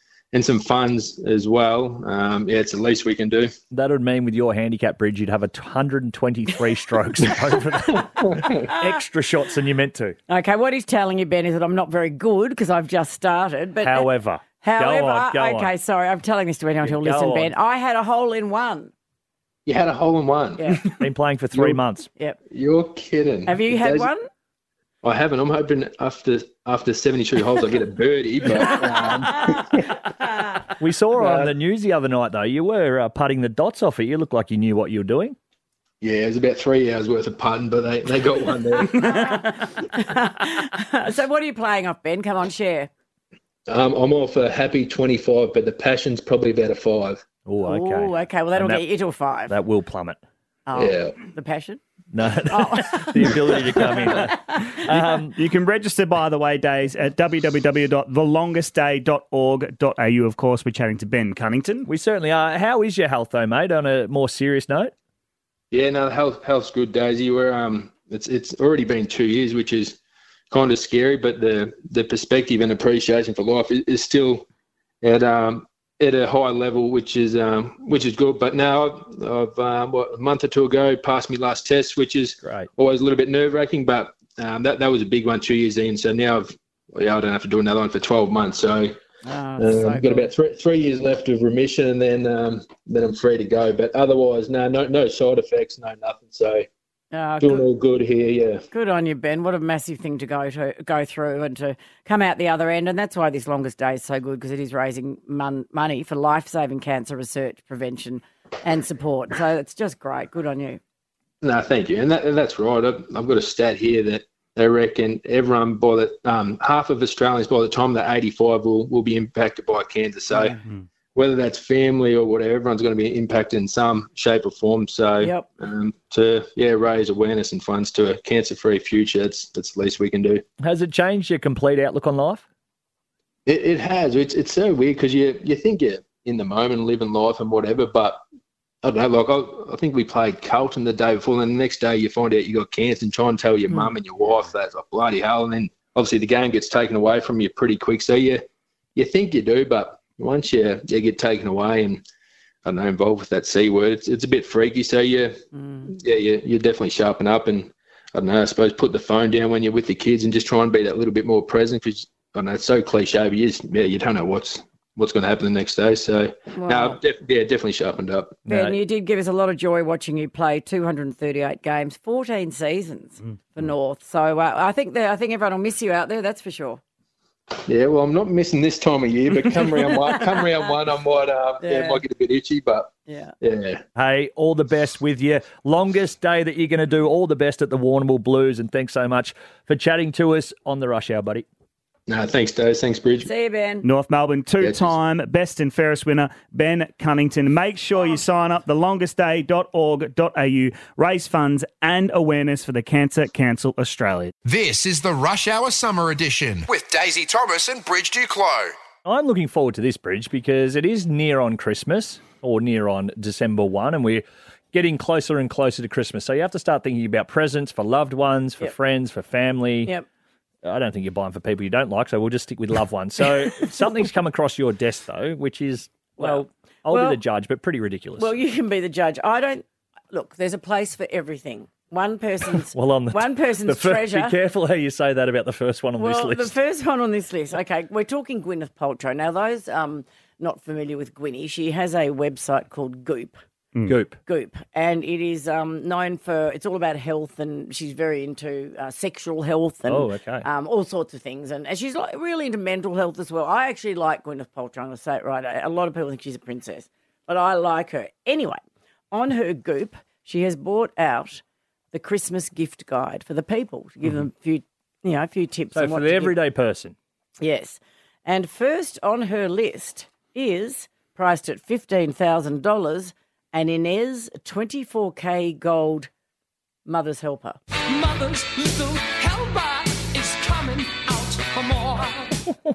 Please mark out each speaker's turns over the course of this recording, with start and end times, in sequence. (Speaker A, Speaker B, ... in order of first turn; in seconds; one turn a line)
Speaker A: 0.3-3.5
Speaker B: 3.7-10.2
Speaker A: 8.1-8.6
Speaker C: 10.3-14.1
Speaker B: 13.8-15.7
Speaker C: 14.6-18.9
Speaker B: 16.8-17.5
Speaker A: 19.7-20.8
Speaker C: 20.6-20.9
Speaker B: 21.0-22.1
Speaker A: 21.5-21.8
Speaker A: 22.5-24.1
Speaker C: 23.5-24.3
Speaker A: 25.0-29.8
Speaker C: 28.7-29.6
Speaker C: 30.2-30.6
Speaker B: 30.8-35.4
Speaker A: 31.2-31.5
Speaker A: 36.0-39.1
Speaker C: 39.0-42.9
Speaker A: 43.7-47.2
Speaker B: 47.5-48.8
Speaker C: 47.6-49.5
Speaker B: 49.5-50.2
Speaker C: 50.7-51.8
Speaker A: 50.7-51.1
Speaker B: 52.1-55.4
Speaker C: 52.5-54.8
Speaker D: 55.0-61.9
Speaker B: 61.9-64.9
Speaker A: 65.7-70.0
Speaker A: 70.5-74.5
Speaker A: 75.0-89.0
Speaker C: 89.2-90.3
Speaker A: 89.6-96.7
Speaker C: 97.1-97.7
Speaker A: 97.4-98.6
Speaker C: 98.7-110.8
Speaker A: 111.4-120.6
Speaker A: 121.2-130.4
Speaker C: 125.2-125.5
Speaker B: 130.6-132.4
Speaker A: 133.5-138.2
Speaker A: 138.8-148.4
Speaker A: 148.9-152.0
Speaker A: 152.7-168.4
Speaker C: 155.5-155.9
Speaker C: 168.5-176.8
Speaker B: 168.5-168.8
Speaker A: 177.7-182.9
Speaker C: 181.6-182.0
Speaker C: 183.1-183.3
Speaker A: 183.4-183.8
Speaker B: 184.0-191.5
Speaker A: 192.1-193.3
Speaker C: 193.2-193.9
Speaker D: 193.8-204.3
Speaker A: 194.6-194.9
Speaker E: 204.4-208.8
Speaker B: 209.0-219.9
Speaker B: 220.6-228.3
Speaker C: 226.2-227.2
Speaker C: 228.2-234.3
Speaker B: 232.7-236.5
Speaker C: 236.0-243.4
Speaker B: 243.8-244.2
Speaker C: 244.2-266.4
Speaker B: 249.9-250.4
Speaker B: 265.7-266.9
Speaker C: 267.4-276.1
Speaker C: 276.9-277.6
Speaker F: 277.9-282.4